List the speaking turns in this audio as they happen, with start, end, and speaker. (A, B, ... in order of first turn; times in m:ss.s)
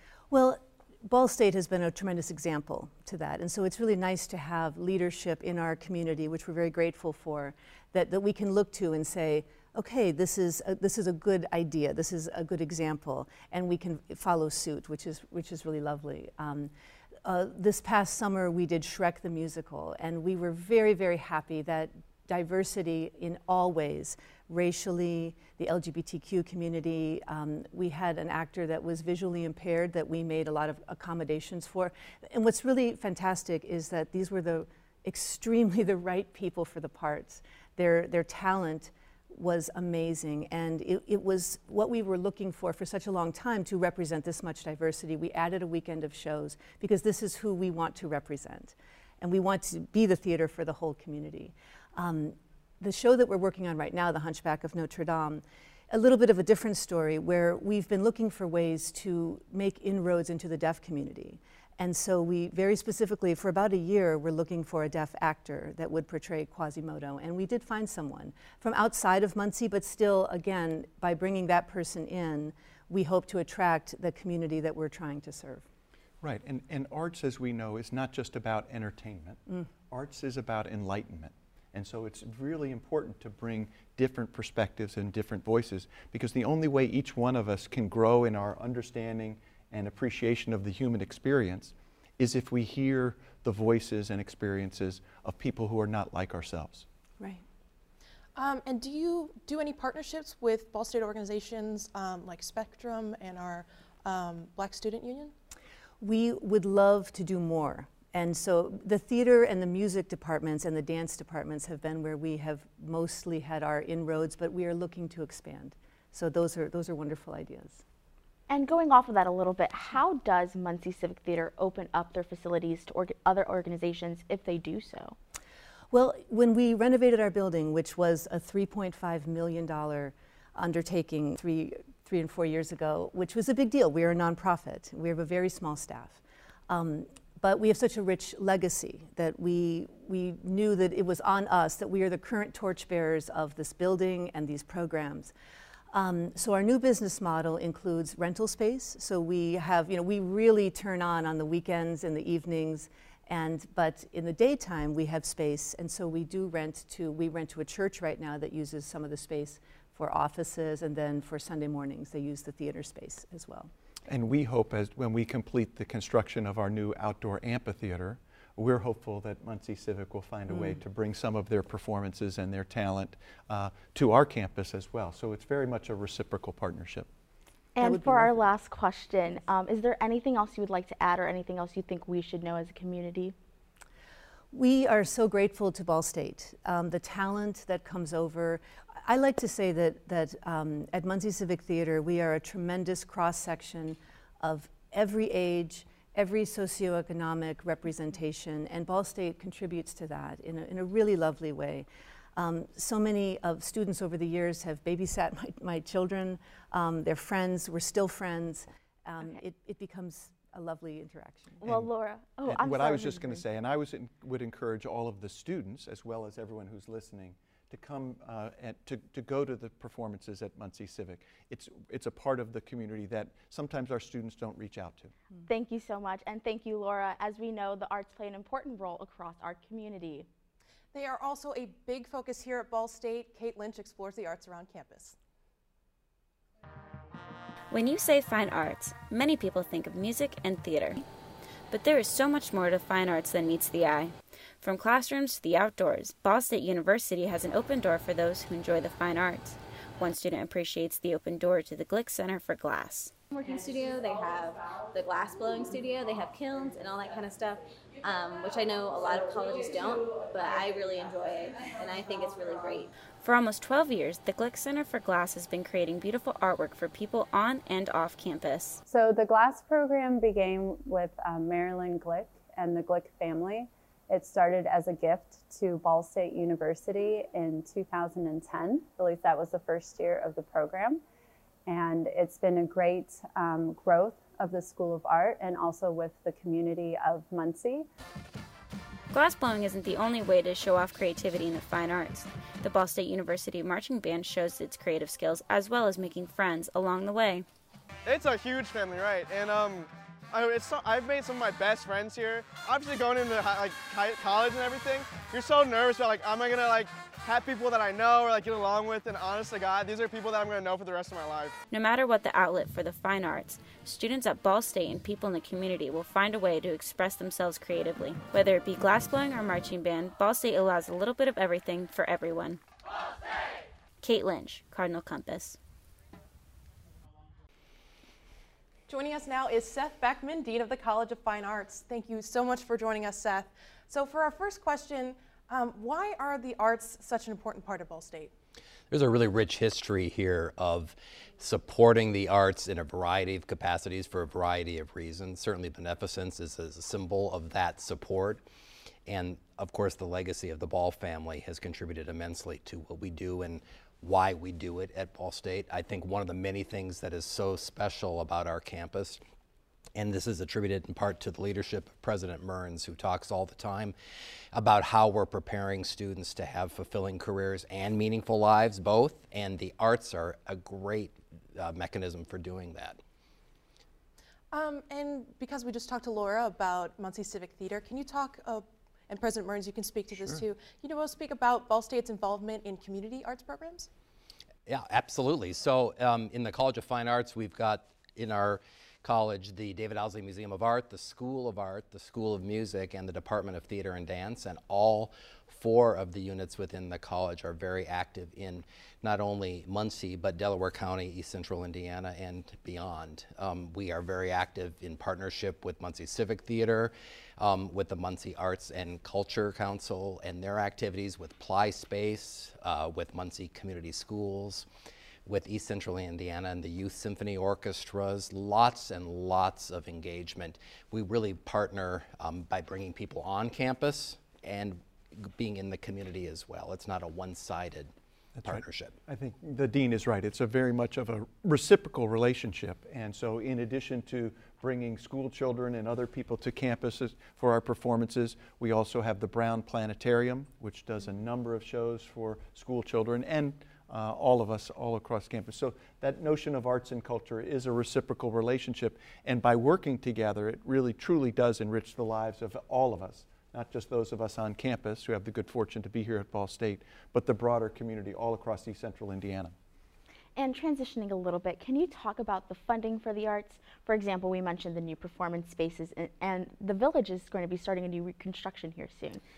0:00.3-0:16.7 A
0:17.2-1:15.6 A
1:16.2-1:36.8 B
1:38.4-1:45.3 C
1:46.0-1:57.8 A
1:58.5-2:05.2 D
2:05.9-2:25.3 A
2:25.9-2:43.7 A
2:44.1-2:57.1 B
2:50.5-2:50.8 A
2:57.8-3:03.4 D
2:57.8-2:58.5 A
3:04.5-3:31.6 A
3:31.6-3:33.4 D
3:31.6-3:31.9 B
3:32.4-3:45.1 B
3:45.5-3:50.3 D
3:50.9-3:55.2 C
3:57.7-4:01.0 E
4:01.7-4:13.1 E
4:13.3-4:22.9 F
4:23.2-4:28.8 E
4:28.9-4:41.0 G
4:41.7-4:47.9 G
4:49.1-4:57.4 E
4:58.1-5:11.6 H
5:11.7-5:22.6 E
5:24.0-5:25.6 E
5:28.9-5:38.3 C
5:38.9-5:48.4 I
5:49.1-5:59.2 I
6:00.0-6:03.9 I
6:04.5-6:13.0 I
6:14.5-6:23.9 C
6:24.7-6:54.7 I
6:55.3-7:07.9 I
7:08.4-7:39.6 B
7:08.4-7:09.0 I
7:40.4-7:49.2 D